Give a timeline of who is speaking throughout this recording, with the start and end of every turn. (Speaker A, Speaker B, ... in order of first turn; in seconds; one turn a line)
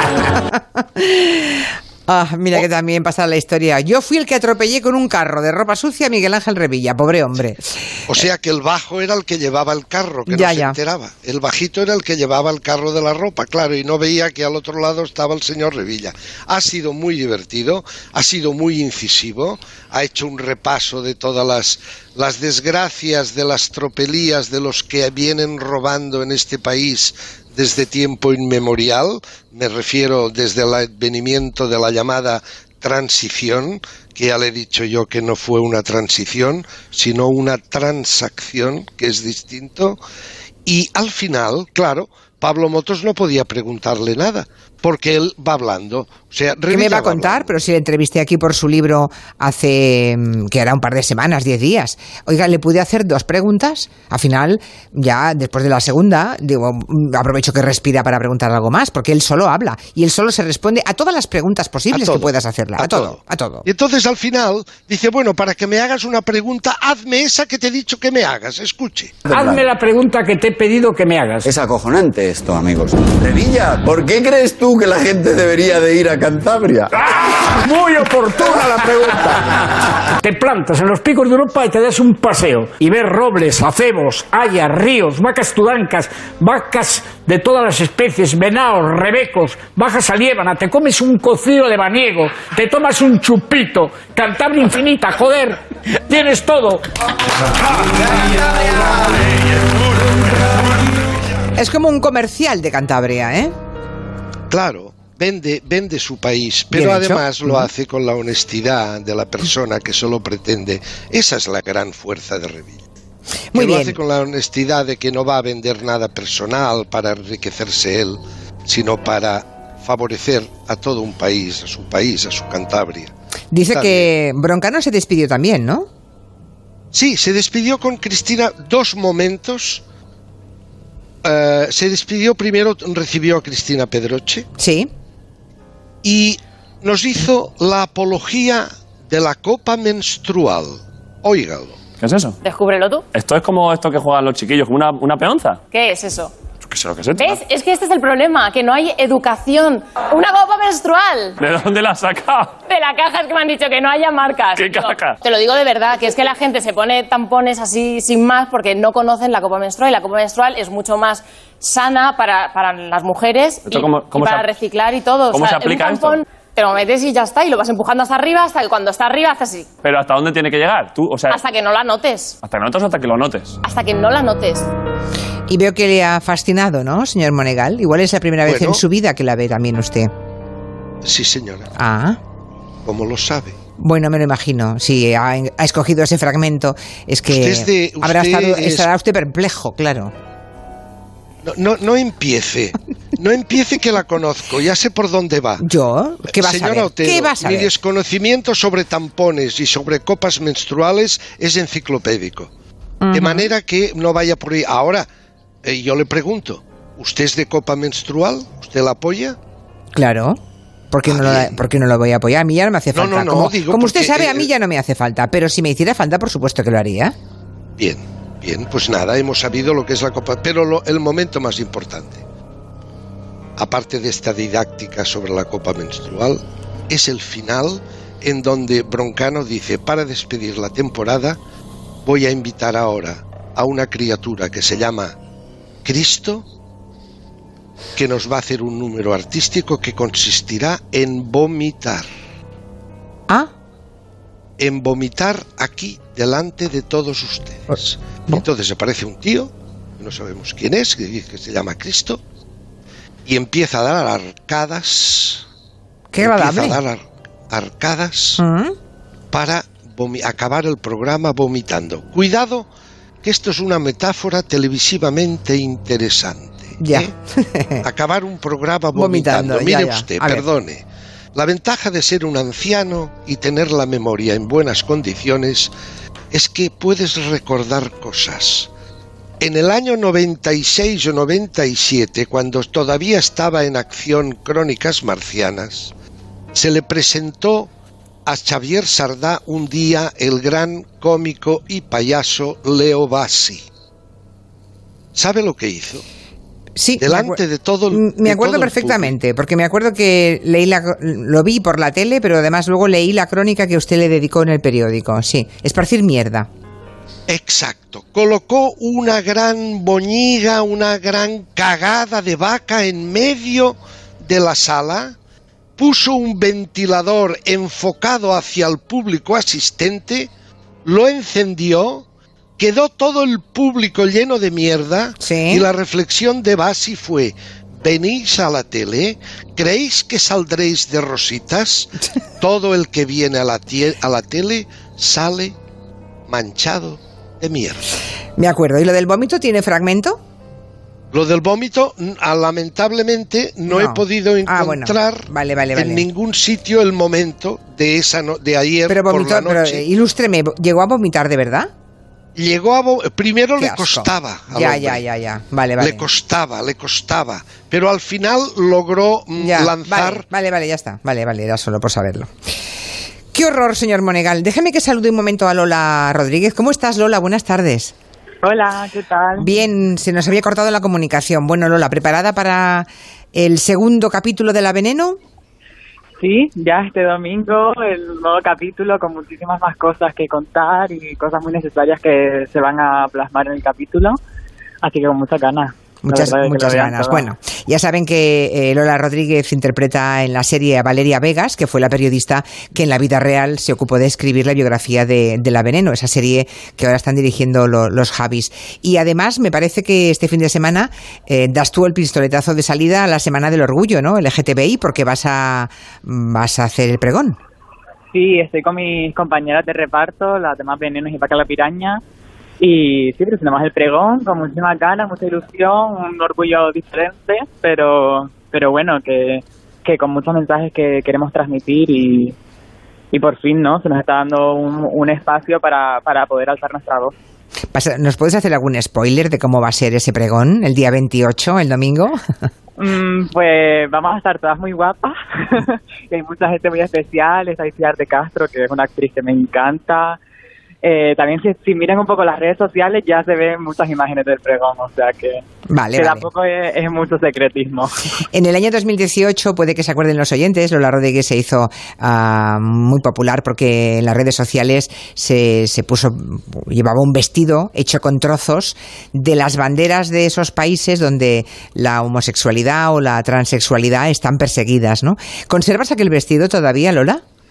Speaker A: 0.2-8.0
Speaker B: 8.1-40.0
Speaker A: 10.3-10.8
Speaker B: 40.6-47.5
Speaker A: 46.7-63.6
Speaker B: 61.9-69.1
Speaker C: 69.2-71.5
Speaker D: 69.3-69.6
Speaker D: 71.4-76.9
Speaker C: 76.9-96.8
Speaker A: 101.5-103.5
Speaker B: 104.5-112.8
Speaker A: 106.7-107.7
Speaker A: 113.5-114.0
Speaker B: 113.5-123.1
Speaker A: 123.5-125.9
Speaker B: 123.7-124.1
Speaker B: 126.9-129.8
Speaker B: 131.2-134.5
Speaker A: 134.6-134.9
Speaker B: 136.0-141.8
Speaker E: 142.0-142.4
Speaker F: 142.4-143.0
Speaker E: 143.1-145.6
Speaker F: 145.7-146.3
Speaker E: 146.7-147.4
Speaker F: 147.2-151.4
Speaker E: 151.4-152.6
Speaker F: 152.6-169.7
Speaker E: 154.5-155.2
Speaker E: 163.6-164.5
Speaker E: 165.3-166.2
Speaker E: 169.8-171.4
Speaker F: 171.3-172.3
Speaker E: 172.4-173.6
Speaker F: 173.6-174.6
Speaker A: 175.5-180.1
Speaker B: 178.4-178.8
Speaker B: 181.0-181.7
Speaker A: 181.8-182.2
Speaker B: 182.8-183.6
Speaker A: 183.8-190.1
Speaker B: 187.3-188.9
Speaker B: 191.4-195.6
Speaker A: 195.6-197.7
Speaker B: 196.3-202.5
Speaker A: 203.0-203.5
Speaker B: 203.1-205.1
Speaker B: 205.6-209.4
Speaker A: 209.9-210.4
Speaker A: 210.9-217.1
Speaker B: 211.1-211.6
Speaker B: 212.9-214.5
Speaker B: 217.8-222.2
Speaker B: 223.6-231.4
Speaker B: 232.0-235.1
Speaker B: 235.8-236.4
Speaker B: 237.9-242.1
Speaker B: 244.6-252.2
Speaker B: 253.2-255.4
Speaker A: 256.1-256.8
Speaker B: 256.2-258.4
Speaker A: 258.4-258.7
Speaker B: 259.3-262.7
Speaker B: 263.2-267.1
Speaker A: 266.8-267.8
Speaker B: 267.8-275.7
Speaker A: 268.9-270.4
Speaker B: 276.3-278.7
Speaker B: 279.4-285.9
Speaker B: 286.5-287.7
Speaker B: 288.2-293.6
Speaker B: 295.1-296.0
Speaker A: 296.8-297.4
Speaker B: 297.0-299.1
Speaker A: 297.9-306.5
Speaker B: 307.3-315.1
Speaker B: 315.8-320.3
Speaker B: 320.8-322.0
Speaker B: 322.6-335.6
Speaker A: 325.2-325.6
Speaker B: 336.3-337.8
Speaker A: 338.4-340.2
Speaker B: 341.1-349.8
Speaker A: 343.7-346.1
Speaker A: 348.9-351.7
Speaker B: 352.3-355.0
Speaker A: 353.6-356.0
Speaker B: 355.8-360.2
Speaker A: 359.4-362.3
Speaker A: 363.3-367.9
Speaker G: 368.4-369.5
Speaker A: 369.4-375.2
Speaker G: 376.2-384.2
Speaker G: 384.8-387.3
Speaker A: 386.0-407.4
Speaker G: 408.1-412.0
Speaker G: 412.6-422.4
Speaker G: 423.1-427.1
Speaker A: 427.7-432.2
Speaker G: 432.8-440.2
Speaker G: 440.8-445.4
Speaker A: 445.7-446.2
Speaker G: 445.9-447.9
Speaker A: 448.3-467.2